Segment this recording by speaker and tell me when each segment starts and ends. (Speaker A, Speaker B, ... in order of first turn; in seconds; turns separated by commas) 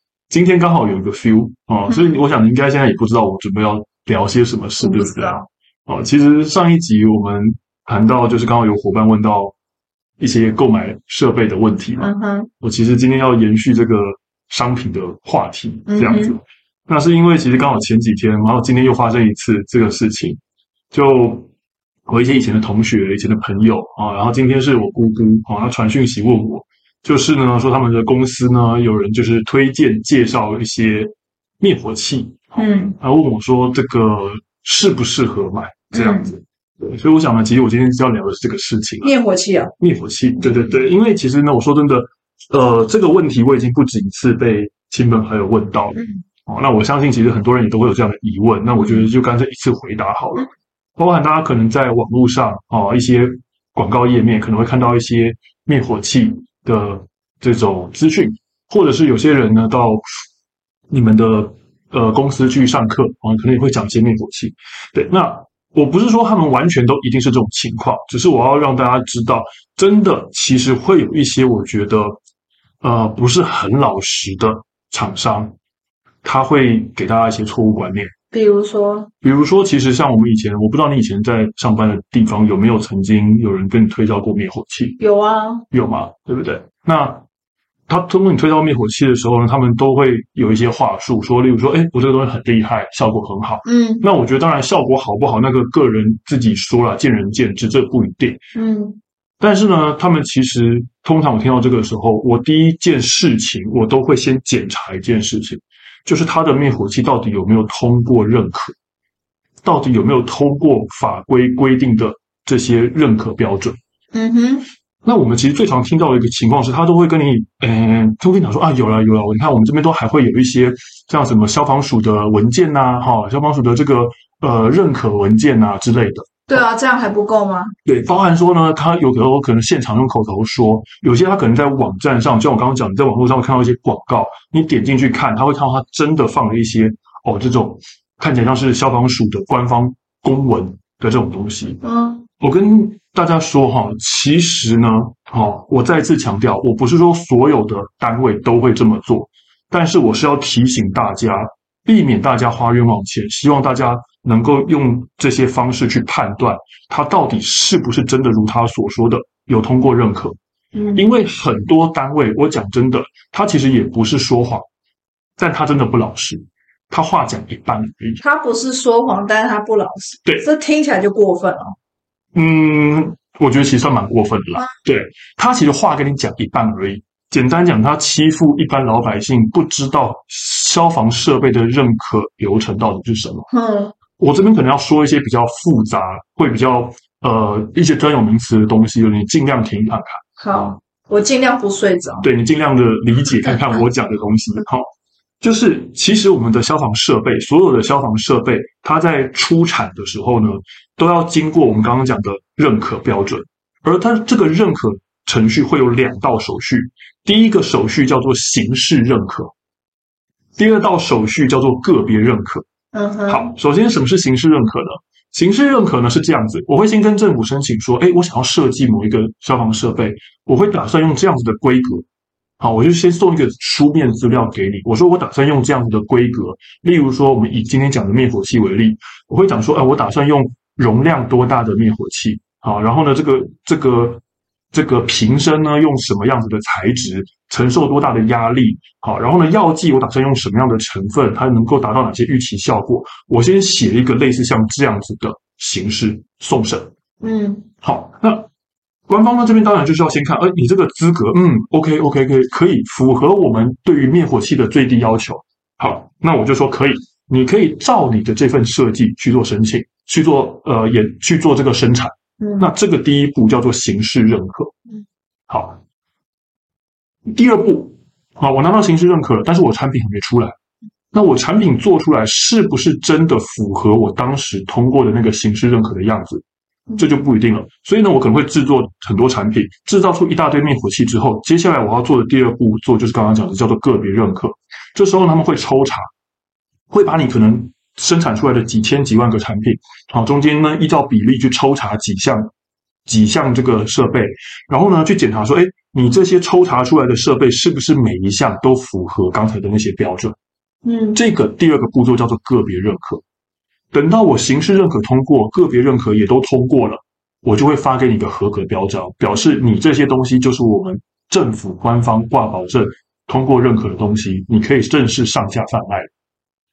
Speaker A: 0.3-9.5, Speaker B: 4.8-5.5, Speaker A: 10.2-20.4, Speaker B: 12.0-12.5, Speaker B: 15.9-16.4, Speaker A: 20.9-21.5, Speaker A: 22.1-39.1, Speaker B: 32.6-33.0, Speaker B: 35.9-36.3, Speaker B: 39.0-39.7, Speaker A: 39.8-60.2, Speaker B: 48.8-49.0, Speaker A: 60.9-72.2, Speaker A: 72.8-75.5, Speaker A: 76.2-78.1, Speaker B: 78.3-79.1, Speaker A: 79.2-85.0, Speaker B: 85.0-85.7, Speaker A: 85.7-87.2, Speaker A: 87.9-98.4, Speaker B: 93.6-94.0, Speaker B: 98.5-99.0, Speaker A: 99.4-108.7, Speaker A: 109.6-113.8, Speaker B: 114.1-114.7, Speaker A: 115.0-126.6, Speaker B: 126.5-127.7, Speaker A: 127.8-141.8, Speaker B: 141.8-142.2, Speaker A: 142.4-160.4, Speaker B: 160.7-161.0, Speaker A: 160.9-164.7, Speaker A: 165.4-168.2, Speaker B: 168.2-171.7, Speaker A: 172.3-183.5, Speaker B: 183.5-183.9, Speaker A: 184.2-190.2, Speaker B: 190.4-192.2, Speaker A: 192.2-194.9, Speaker A: 195.4-209.5, Speaker A: 210.6-212.7, Speaker B: 212.9-213.5, Speaker A: 213.3-222.1, Speaker A: 222.6-234.2, Speaker A: 234.7-246.9, Speaker B: 247.2-247.7, Speaker A: 247.8-248.5, Speaker A: 249.1-264.7, Speaker B: 262.4-262.7, Speaker A: 265.5-265.8, Speaker A: 267.2-270.5, Speaker A: 271.1-276.4, Speaker A: 277.0-286.1, Speaker A: 286.9-292.5, Speaker A: 293.1-300.4, Speaker B: 300.8-301.2, Speaker A: 301.1-303.2, Speaker A: 303.9-316.1